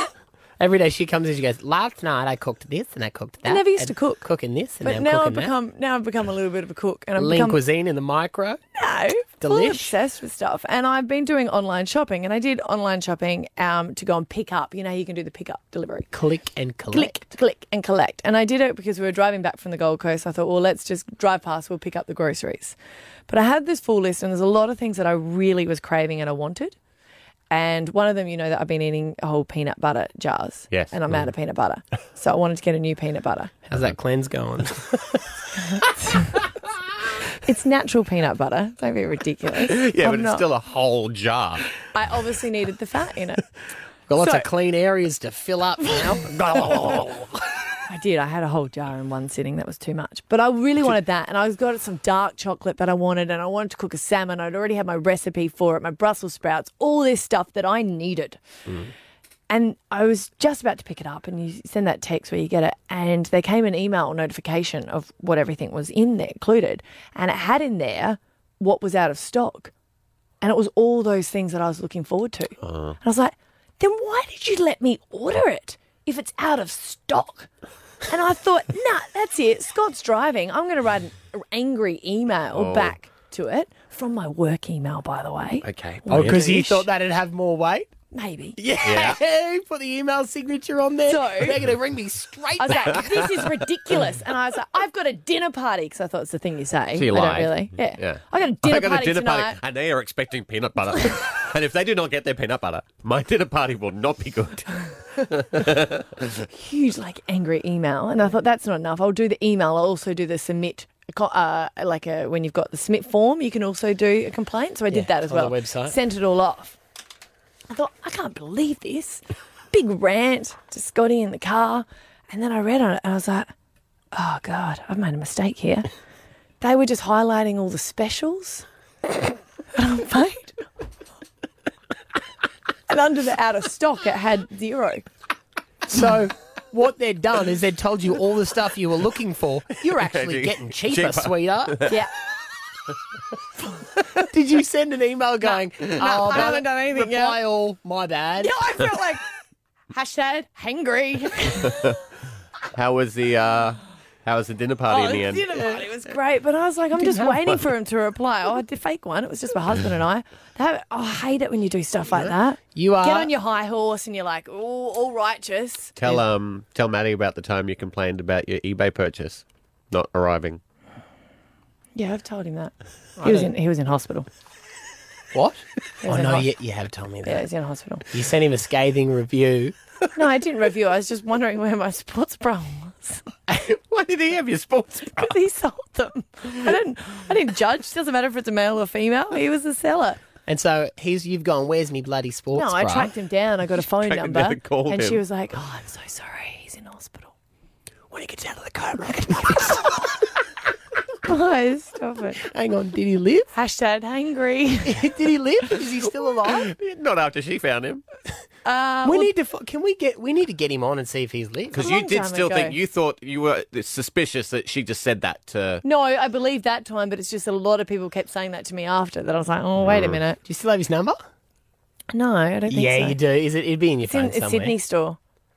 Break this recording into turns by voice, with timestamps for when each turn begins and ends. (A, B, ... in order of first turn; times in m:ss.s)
0:00.6-0:05.5 A
0:03.4-0:04.2 B
0:04.8-0:07.6 B
0:07.2-0:08.6 A
0:08.8-0:16.1 B
0:09.4-0:09.9 A
0:16.1-0:17.2 A
0:16.9-0:22.8 B
0:23.3-0:26.8 B
0:27.5-0:33.5 B
0:30.7-0:31.3 C
0:33.7-0:35.2 A
0:35.8-0:36.4 B
0:37.4-0:40.4 B
0:39.6-0:41.7 C
0:41.9-0:43.4 B
0:44.1-0:47.3 A
0:44.2-0:44.5 B
0:45.9-0:46.2 B
0:47.9-0:58.4 B
0:59.5-1:09.7 B
1:10.4-1:17.5 B
1:12.6-1:13.0 C
1:18.1-1:26.9 B
1:22.5-1:23.0 C
1:25.6-1:26.4 C
1:26.1-1:27.9 A
1:28.1-1:28.6 B
1:28.6-1:33.1 A
1:28.8-1:29.2 C
1:31.1-1:31.6 B
1:32.6-1:39.6 B
1:37.0-1:46.3 C
1:46.5-1:56.8 B
1:54.9-1:56.0 A
1:57.7-2:03.5 B
2:04.1-2:05.9 B
2:06.6-2:08.7 B
2:09.8-2:10.6 B
2:12.9-2:15.0 B
2:15.9-2:21.8 A
2:20.0-2:22.0 C
2:24.2-2:28.5 A
2:25.5-2:27.4 B
2:28.4-2:29.2 B
2:29.9-2:31.8 B
2:32.7-2:35.5 C
2:34.9-2:46.0 B
2:37.0-2:37.5 A
2:42.1-2:43.3 A
2:46.0-2:50.6 C
2:52.0-2:54.3 B
2:53.2-2:53.5 A
2:55.3-2:57.5 A
2:56.0-2:56.5 B
2:57.2-2:58.0 B
2:58.1-2:59.7 A
3:00.2-3:03.2 B
3:03.6-3:05.3 C
3:05.1-3:10.2 B
3:10.5-3:13.1 A
3:12.5-3:17.3 B
3:13.9-3:15.2 C
3:18.1-3:19.8 A
3:19.3-3:19.6 B
3:21.2-3:22.4 B
3:22.4-3:23.5 A
3:23.5-3:25.0 B
3:24.9-3:26.7 A
3:26.6-3:28.0 C
3:28.6-3:29.3 B
3:29.0-3:31.8 A
3:31.7-3:35.8 C
3:31.7-3:32.8 B
3:35.8-3:40.4 B
3:39.8-3:40.2 C
3:40.5-3:41.2 A
3:42.1-3:43.2 B
3:42.7-3:44.8 A
3:44.1-3:45.2 B